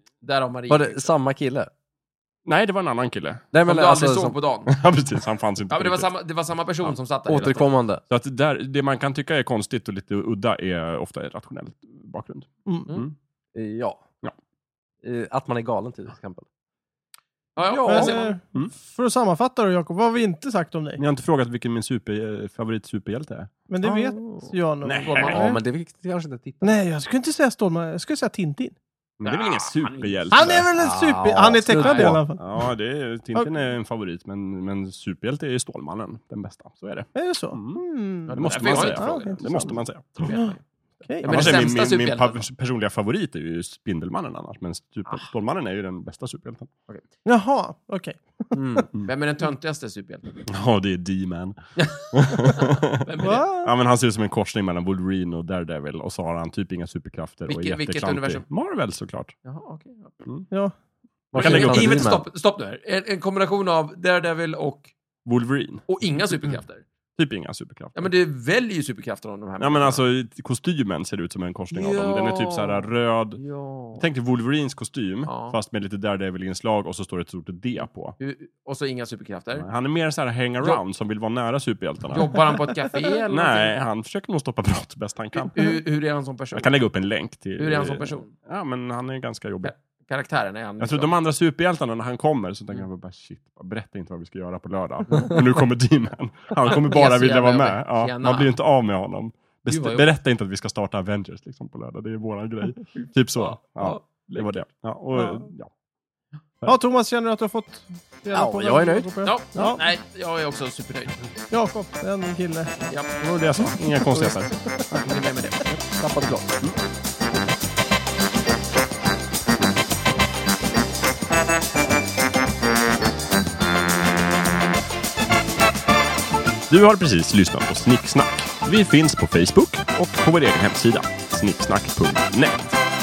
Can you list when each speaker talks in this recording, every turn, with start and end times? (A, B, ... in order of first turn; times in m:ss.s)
0:00.2-0:01.1 A
0:00.7-0:01.7 B
0:02.5-0:03.4 C
0:03.5-0:04.4 B
0:03.6-0:04.8 A
0:04.7-0:06.1 C
0:05.7-0:07.7 A
0:07.3-0:08.0 B
0:08.1-0:13.1 C
0:13.5-0:14.0 B
0:15.0-0:16.5 B
0:17.6-0:18.4 A
0:17.6-0:18.2 B
0:17.9-0:21.0 D
0:21.0-0:23.5 C
0:23.7-0:25.6 D
0:23.8-0:24.5 B
0:24.8-0:25.4 C
0:25.1-0:25.4 A
0:25.2-0:26.8 B
0:26.6-0:28.8 D
0:29.2-0:30.7 C
0:29.2-0:30.6 A
0:30.3-0:32.7 D
0:30.8-0:32.3 B
0:31.7-0:32.2 A
0:32.3-0:40.3 C
0:37.2-0:40.6 D
0:38.3-0:40.6 A
0:41.1-0:41.6 D
0:41.2-0:42.5 A
0:41.2-0:46.7 C
0:47.2-0:48.6 D
0:48.5-0:48.9 B
0:49.0-0:50.4 A
0:50.5-0:51.6 C
0:51.8-0:53.5 A
0:52.1-0:59.3 C
0:53.2-0:53.7 D
0:57.5-0:58.4 A
0:59.4-1:00.1 A
1:01.3-1:02.1 C
1:01.3-1:02.2 B
1:01.4-1:04.9 A
1:05.2-1:05.9 C
1:05.9-1:06.8 A
1:07.2-1:08.1 C
1:08.0-1:10.0 A
1:09.6-1:13.4 C
1:11.7-1:14.0 A
1:13.9-1:18.2 C
1:15.3-1:15.6 A
1:18.2-1:19.7 A
1:19.5-1:22.4 C
1:22.1-1:23.7 A
1:23.3-1:25.7 C
1:25.4-1:26.7 A
1:26.5-1:29.7 C
1:27.6-1:28.3 A
1:29.6-1:31.1 A
1:30.8-1:45.7 C
1:35.1-1:35.4 A
1:36.6-1:38.5 A
1:39.7-1:40.1 A
1:43.0-1:44.6 A
1:45.2-1:45.5 D
1:46.7-1:49.8 D
1:48.3-1:49.1 B
1:49.2-1:51.2 A
1:51.5-1:52.7 D
1:52.9-1:53.1 A
1:53.2-1:54.5 C
1:54.1-1:56.6 B
1:55.0-1:55.5 A
2:06.7-2:12.8 C